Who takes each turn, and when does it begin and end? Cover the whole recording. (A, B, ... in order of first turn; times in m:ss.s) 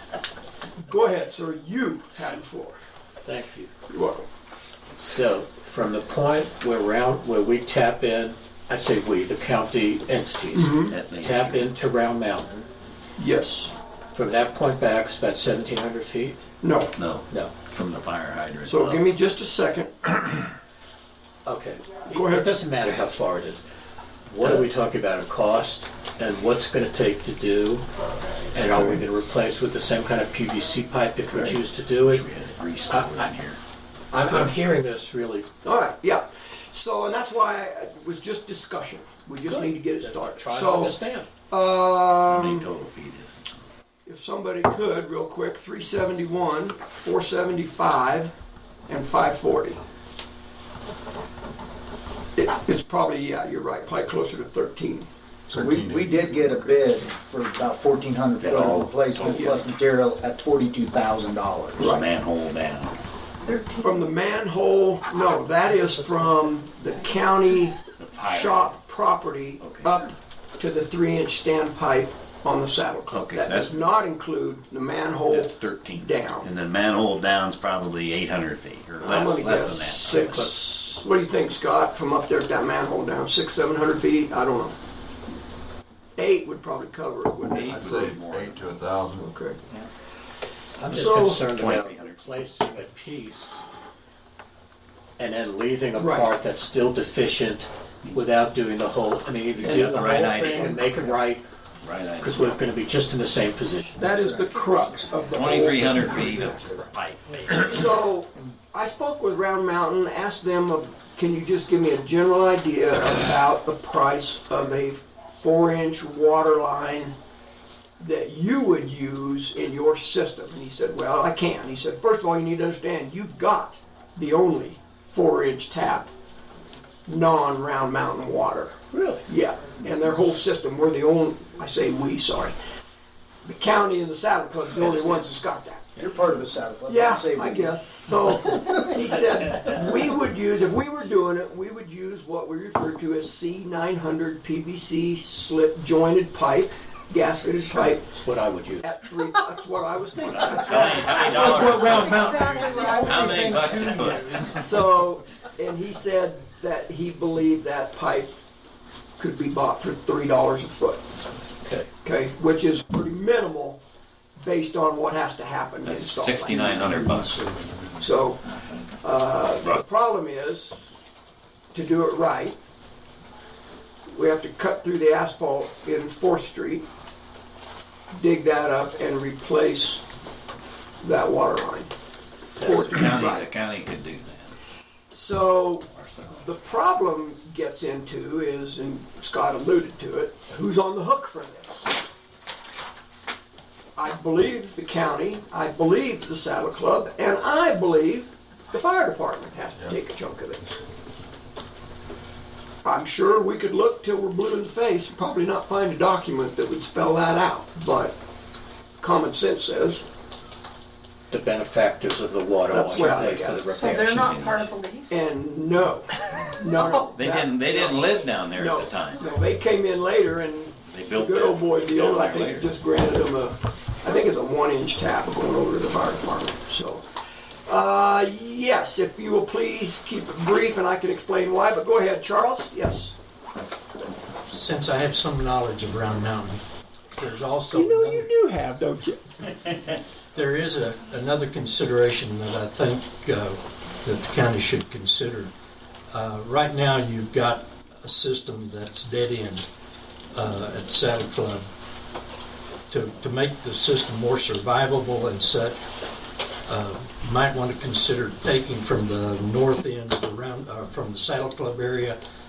0:00.8-0:02.8 A
0:03.2-0:03.7 B
0:03.9-0:04.2 A
0:05.0-0:12.7 B
0:10.5-0:10.9 A
0:10.6-0:11.7 C
0:13.2-0:13.7 A
0:14.1-0:16.4 B
0:16.6-0:16.9 A
0:17.0-0:19.1 C
0:18.7-0:20.4 A
0:21.4-0:23.6 B
0:22.1-0:22.5 A
0:24.3-0:27.8 B
0:28.5-0:32.2 B
0:31.3-0:33.6 C
0:32.9-0:33.3 B
0:34.1-0:35.5 B
0:34.3-0:34.5 A
0:35.6-0:41.0 A
0:39.5-0:41.3 B
0:41.5-0:42.7 A
0:42.2-0:43.7 C
0:44.0-0:48.3 A
0:48.9-0:49.8 A
0:52.4-0:55.1 A
0:55.5-0:56.8 D
0:55.5-1:01.9 E
0:58.4-0:59.7 C
0:59.3-0:59.6 A
1:01.8-1:02.0 A
1:01.8-1:03.0 C
1:03.4-1:04.0 F
1:03.8-1:16.5 A
1:08.0-1:08.7 C
1:09.6-1:09.9 C
1:13.1-1:13.8 C
1:15.2-1:20.5 C
1:19.0-1:24.7 A
1:20.1-1:20.7 B
1:26.2-1:28.2 A
1:27.5-1:28.7 C
1:27.5-1:29.3 D
1:29.2-1:29.6 A
1:30.8-1:33.6 B
1:30.8-1:31.5 A
1:31.4-1:32.2 C
1:35.2-1:41.4 B
1:36.0-1:36.3 A
1:38.0-1:38.3 C
1:39.5-1:40.8 C
1:39.6-1:41.1 A
1:41.8-1:42.6 C
1:42.2-1:44.1 B
1:44.0-1:46.6 A
1:44.1-1:45.2 E
1:45.3-1:47.9 C
1:47.5-1:57.1 A
1:58.0-2:06.1 A
2:07.0-2:12.5 A
2:08.9-2:09.2 B
2:13.4-2:16.0 A
2:14.8-2:15.2 C
2:16.0-2:17.8 E
2:16.9-2:28.1 A
2:28.0-2:28.8 B
2:28.8-2:33.5 A
2:30.4-2:34.7 C
2:31.6-2:32.8 G
2:32.2-2:32.8 F
2:34.3-2:38.3 A
2:39.2-2:41.0 A
2:41.6-2:41.9 B
2:42.0-2:43.8 A
2:44.4-2:47.1 A
2:45.8-2:47.4 C
2:48.0-2:48.4 A
2:49.0-2:50.8 A
2:51.7-2:52.6 A
2:54.1-2:56.8 A
2:58.1-3:00.0 A
3:01.0-3:01.9 A
3:02.6-3:03.2 B
3:02.6-3:03.5 A
3:02.9-3:04.5 C
3:05.1-3:11.9 A
3:05.9-3:06.4 C
3:14.0-3:20.7 A
3:22.8-3:28.2 A
3:29.0-3:30.0 A
3:31.3-3:34.3 B
3:32.7-3:33.6 A
3:33.5-3:34.8 C
3:33.7-3:35.1 F
3:35.1-3:47.0 A
3:36.9-3:39.2 C
3:40.8-3:42.7 C
3:47.6-3:53.1 A
3:54.5-3:56.6 G
3:57.2-3:58.3 G
3:57.7-3:59.2 A
4:00.3-4:05.5 G
4:06.1-4:09.6 G
4:10.3-4:11.6 G
4:12.9-4:15.8 G
4:16.7-4:22.2 G